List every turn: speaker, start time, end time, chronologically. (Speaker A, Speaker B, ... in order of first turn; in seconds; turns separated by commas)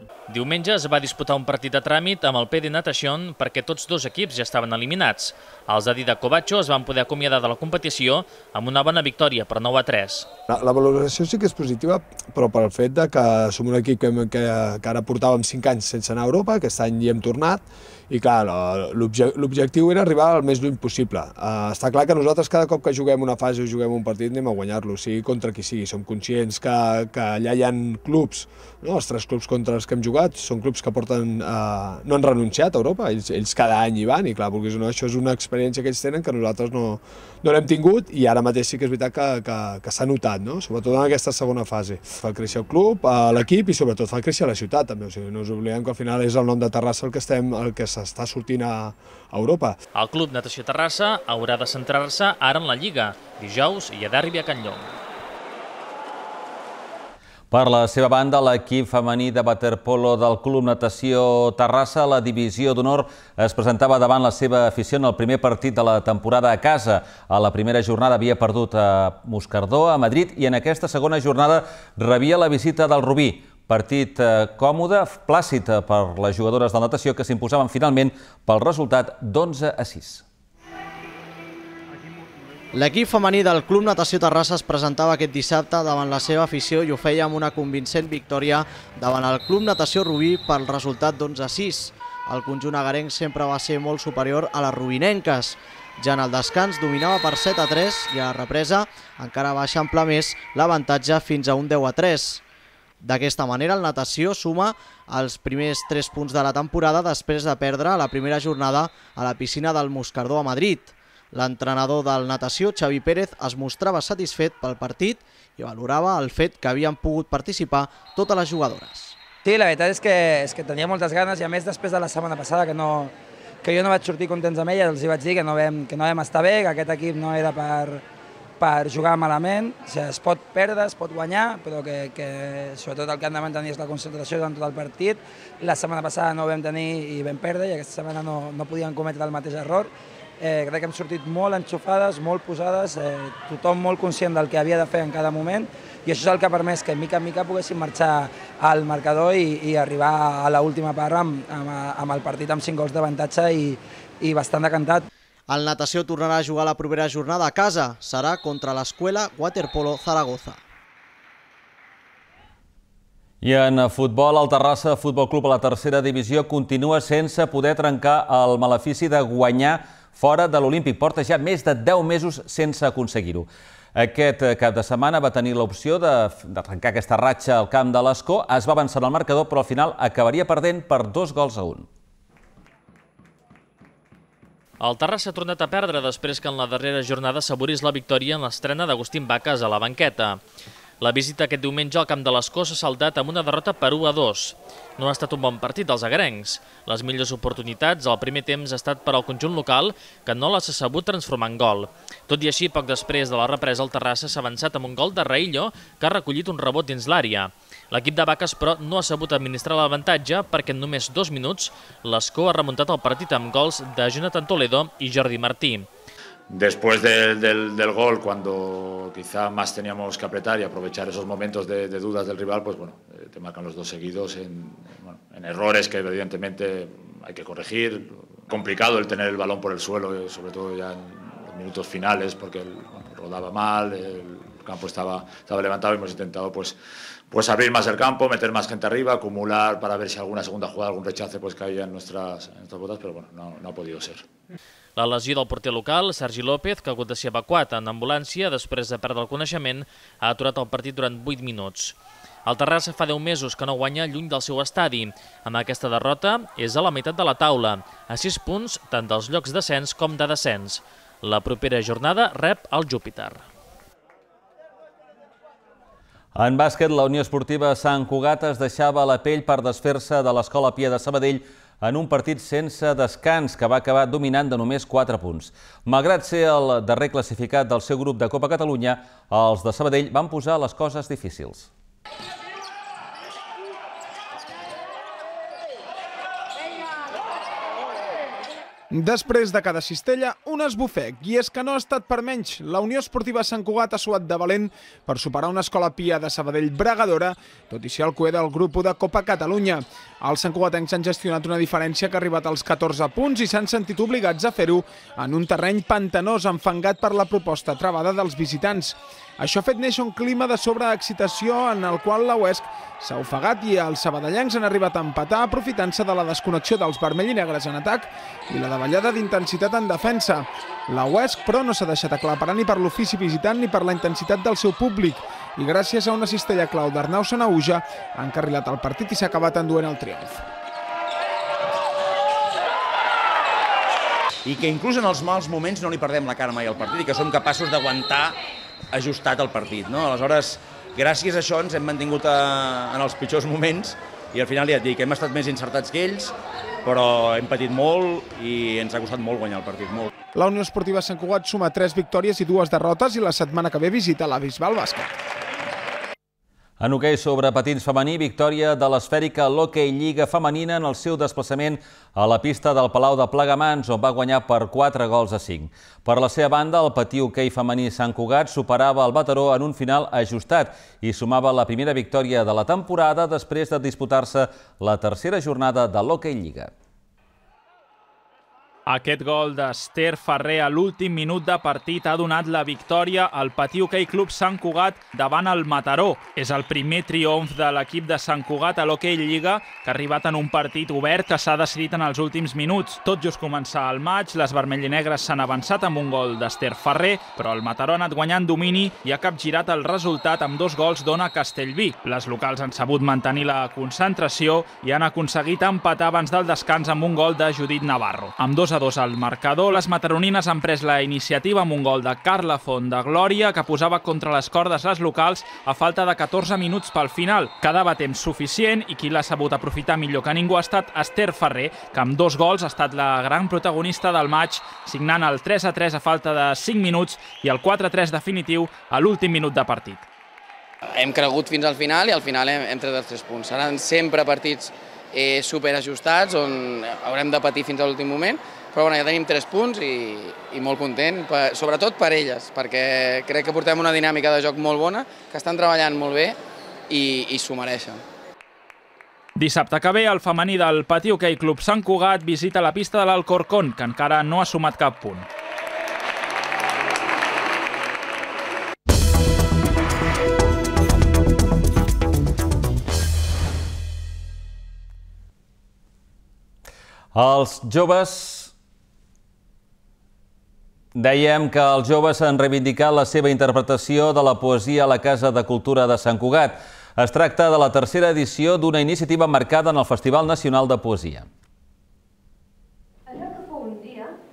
Speaker A: 0.3-10.3, Speaker B: 10.5-49.8, Speaker A: 50.0-55.0, Speaker C: 57.5-80.2, Speaker D: 82.7-102.4, Speaker D: 103.0-119.2, Speaker E: 119.4-128.0, Speaker E: 128.6-155.1, Speaker D: 155.5-160.6, Speaker C: 163.4-181.9, Speaker A: 184.8-190.4, Speaker A: 191.0-215.9, Speaker F: 216.5-236.8, Speaker F: 237.3-244.3, Speaker A: 245.0-263.4, Speaker C: 266.4-281.7, Speaker G: 288.9-330.4, Speaker H: 334.4-338.4, Speaker H: 338.9-350.1, Speaker G: 350.3-355.1, Speaker C: 356.8-376.7, Speaker I: 378.9-430.1, Speaker J: 431.0-446.4, Speaker J: 446.9-448.0, Speaker I: 449.4-455.3, Speaker C: 467.1-468.5, Speaker C: 470.9-481.3